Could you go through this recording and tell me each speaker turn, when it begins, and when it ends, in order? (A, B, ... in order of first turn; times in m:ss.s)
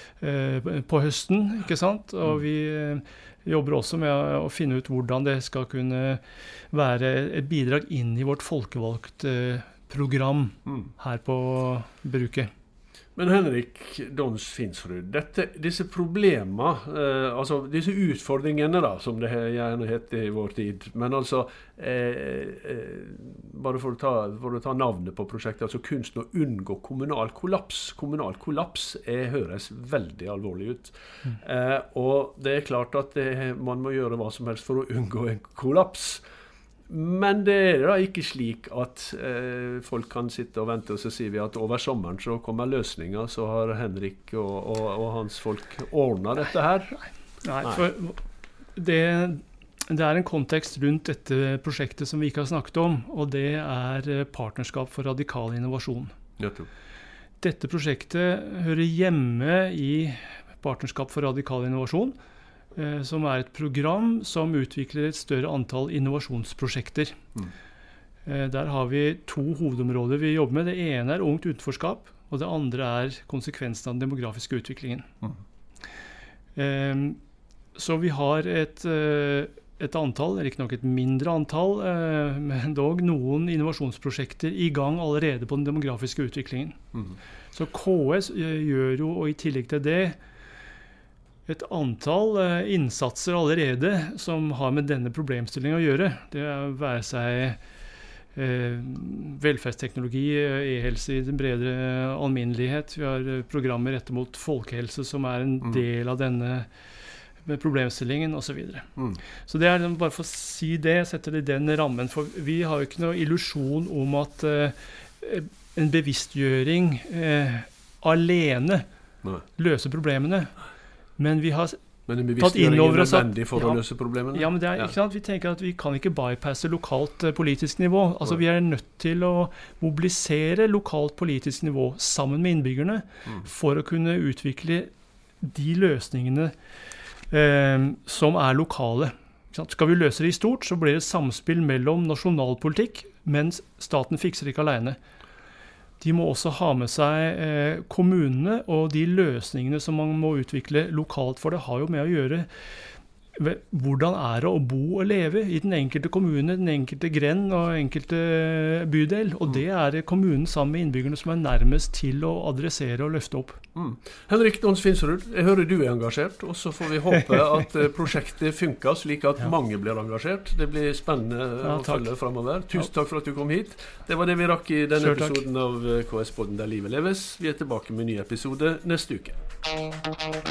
0:00.2-0:12.5 A
0:13.2-0:36.2 B
0:36.9-0:47.0 B
0:47.4-0:48.2 A
0:47.6-0:47.9 B
0:48.8-0:56.1 A
0:56.4-0:56.7 B
0:57.4-1:02.2 A
1:02.8-1:07.2 A
1:08.3-1:15.1 A
1:16.6-1:17.2 A
1:17.8-1:26.8 A
1:27.5-1:30.2 A
1:31.5-1:37.6 A
1:38.4-1:46.7 A
1:47.4-1:48.9 A
1:49.4-1:58.9 A
1:59.6-2:00.5 A
2:01.2-2:01.8 A
2:02.1-2:04.9 B
2:02.4-2:14.9 A
2:15.4-2:16.5 A
2:17.3-2:25.0 A
2:26.0-2:32.5 A
2:33.4-2:43.6 A
2:43.8-2:59.4 B
2:51.6-2:52.1 A
2:55.0-2:55.4 A